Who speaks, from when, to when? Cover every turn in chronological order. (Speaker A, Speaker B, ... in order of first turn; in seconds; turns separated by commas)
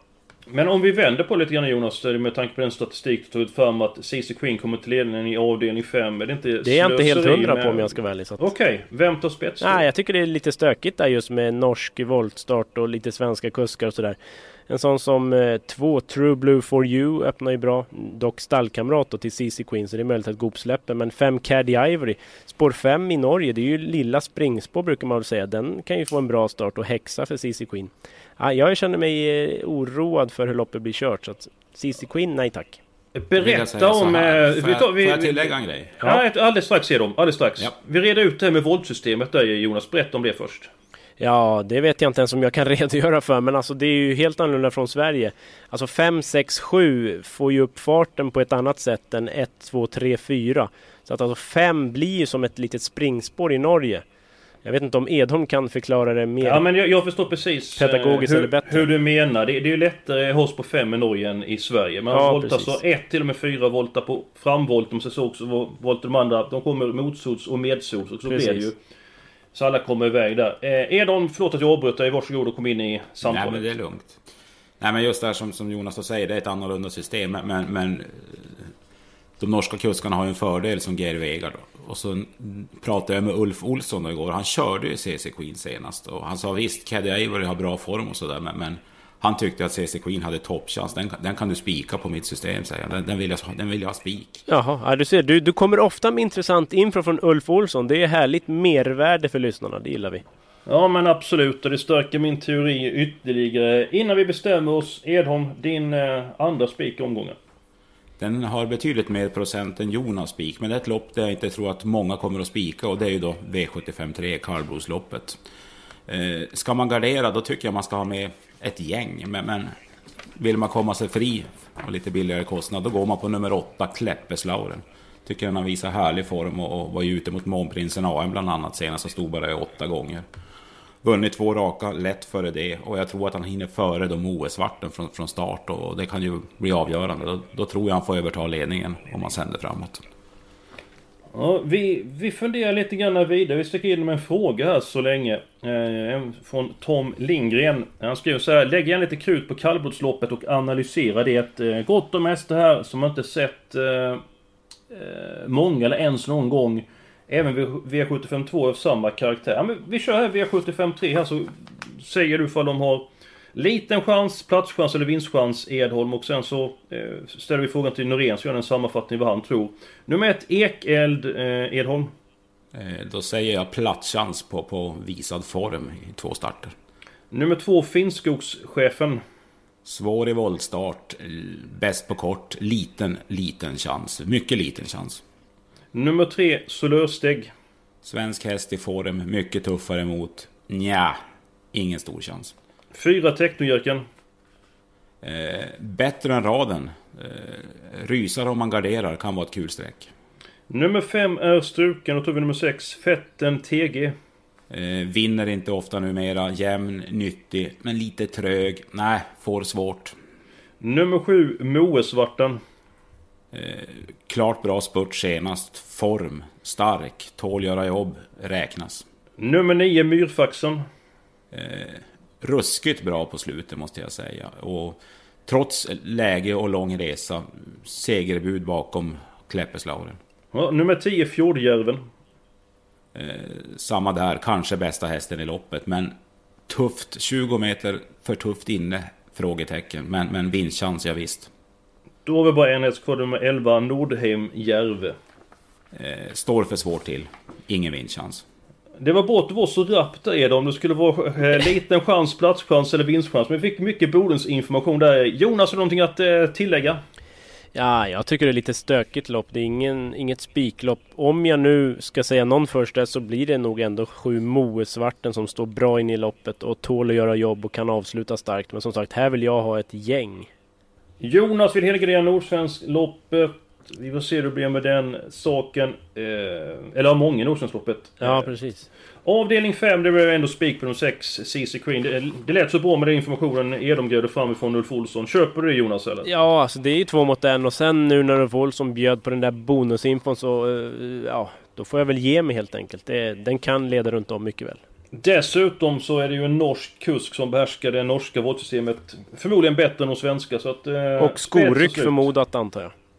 Speaker A: 0.5-9.9, Speaker B: 6.6-8.5, Speaker B: 9.6-14.2, Speaker B: 14.7-32.8, Speaker A: 33.1-40.7, Speaker C: 33.4-36.0, Speaker B: 41.2-54.0, Speaker B: 54.6-56.6, Speaker A: 56.4-68.8, Speaker B: 57.8-58.9, Speaker B: 62.1-62.8, Speaker B: 68.3-68.7, Speaker A: 69.5-73.7, Speaker C: 73.2-74.2, Speaker C: 74.8-78.7, Speaker C: 79.4-94.5, Speaker B: 94.5-100.2, Speaker A: 100.7-107.4, Speaker C: 108.2-115.4, Speaker C: 116.1-119.7, Speaker C: 120.3-130.2, Speaker C: 131.0-140.0, Speaker A: 141.3-154.2, Speaker A: 154.9-172.1, Speaker C: 172.7-176.8, Speaker A: 177.3-179.2, Speaker C: 179.8-185.2, Speaker A: 185.9-187.5, Speaker C: 188.0-191.2, Speaker C: 191.7-192.5, Speaker A: 192.9-194.1, Speaker C: 195.2-200.1, Speaker A: 200.7-204.2, Speaker C: 204.7-210.2, Speaker A: 210.8-212.6, Speaker C: 213.5-219.1, Speaker A: 219.4-220.8, Speaker C: 221.5-230.2, Speaker A: 230.5-232.0, Speaker C: 233.1-236.2, Speaker C: 236.7-241.5, Speaker A: 242.3-245.2, Speaker C: 245.9-248.4, Speaker A: 249.0-257.0, Speaker B: 257.8-270.5, Speaker A: 271.2-278.5, Speaker B: 278.2-278.9, Speaker A: 279.2-286.3, Speaker B: 286.2-294.8, Speaker A: 295.1-302.3, Speaker B: 301.2-302.9